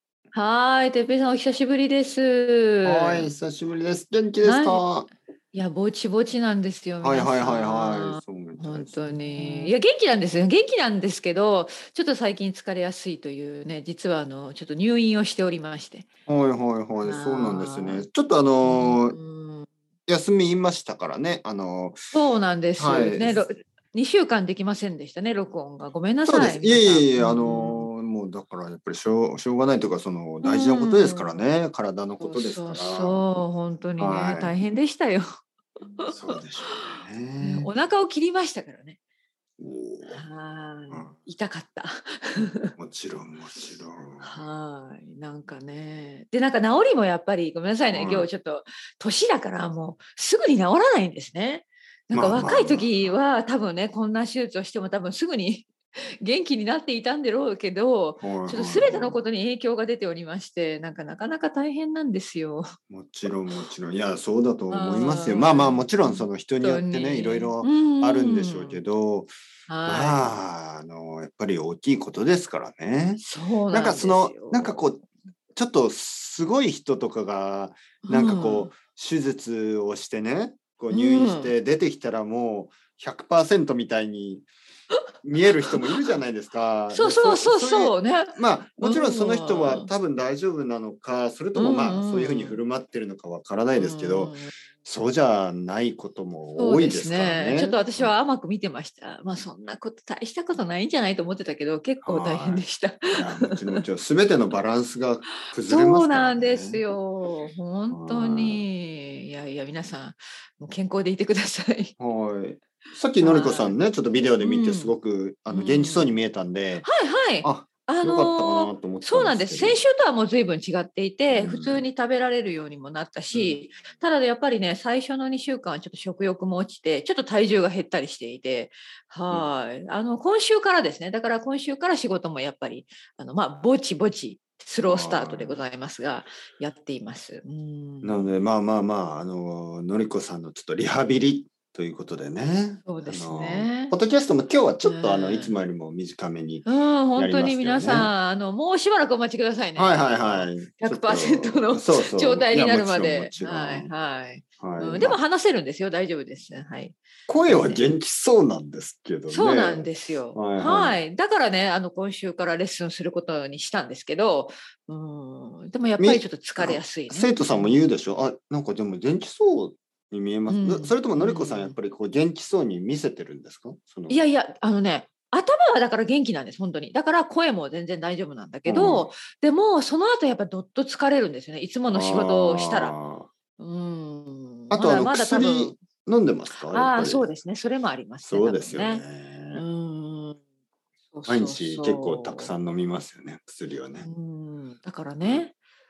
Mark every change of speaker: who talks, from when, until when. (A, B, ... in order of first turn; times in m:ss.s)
0:00.3-0:03.3 A
0:02.8-0:05.1 B
0:04.4-0:04.8 A
0:05.5-0:16.1 A
0:07.0-0:09.7 B
0:16.3-0:19.2 B
0:17.0-0:18.0 A
0:18.6-0:19.7 A
0:20.1-0:22.1 B
0:22.1-0:27.9 A
0:22.8-0:23.5 B
0:26.2-0:33.3 B
0:30.4-0:31.4 A
0:32.2-0:35.2 A
0:34.0-0:34.5 B
0:36.0-0:39.0 A
0:36.1-0:37.7 B
0:39.6-0:40.2 B
0:40.1-0:42.8 A
0:42.8-0:44.4 B
0:44.2-0:55.7 A
0:47.9-0:48.3 B
0:52.1-0:53.1 B
0:56.2-1:02.7 A
0:58.2-0:59.2 B
1:02.9-1:09.3 B
1:04.7-1:08.8 A
1:09.7-1:10.3 A
1:09.9-1:15.0 B
1:13.2-1:14.8 A
1:15.6-1:24.4 B
1:18.0-1:18.7 A
1:20.9-1:21.5 A
1:25.2-1:38.1 B
1:25.5-1:26.1 A
1:26.9-1:29.9 A
1:31.6-1:32.6 A
1:33.8-1:34.5 A
1:36.6-1:43.8 A
1:42.0-1:46.8 B
1:45.5-1:51.9 A
1:47.9-1:48.6 B
1:52.0-1:56.9 B
1:53.2-1:53.8 A
1:54.4-1:54.9 A
1:55.5-1:56.2 A
1:56.8-2:18.2 A
1:57.4-1:59.8 B
2:01.3-2:01.8 B
2:03.3-2:03.6 B
2:14.8-2:15.6 B
2:18.0-2:28.1 B
2:22.8-2:23.9 A
2:24.8-2:25.6 A
2:26.7-2:37.8 A
2:29.8-2:33.9 B
2:34.6-2:35.2 B
2:37.3-2:41.0 B
2:39.3-2:47.8 A
2:46.0-2:54.2 B
2:50.5-2:51.8 A
2:54.1-3:02.9 A
2:58.7-2:59.1 B
3:01.9-3:03.3 B
3:03.6-3:05.8 A
3:04.7-3:07.3 B
3:06.7-3:10.4 A
3:08.2-3:09.6 B
3:11.1-3:12.5 A
3:11.3-3:14.1 B
3:14.0-3:15.5 A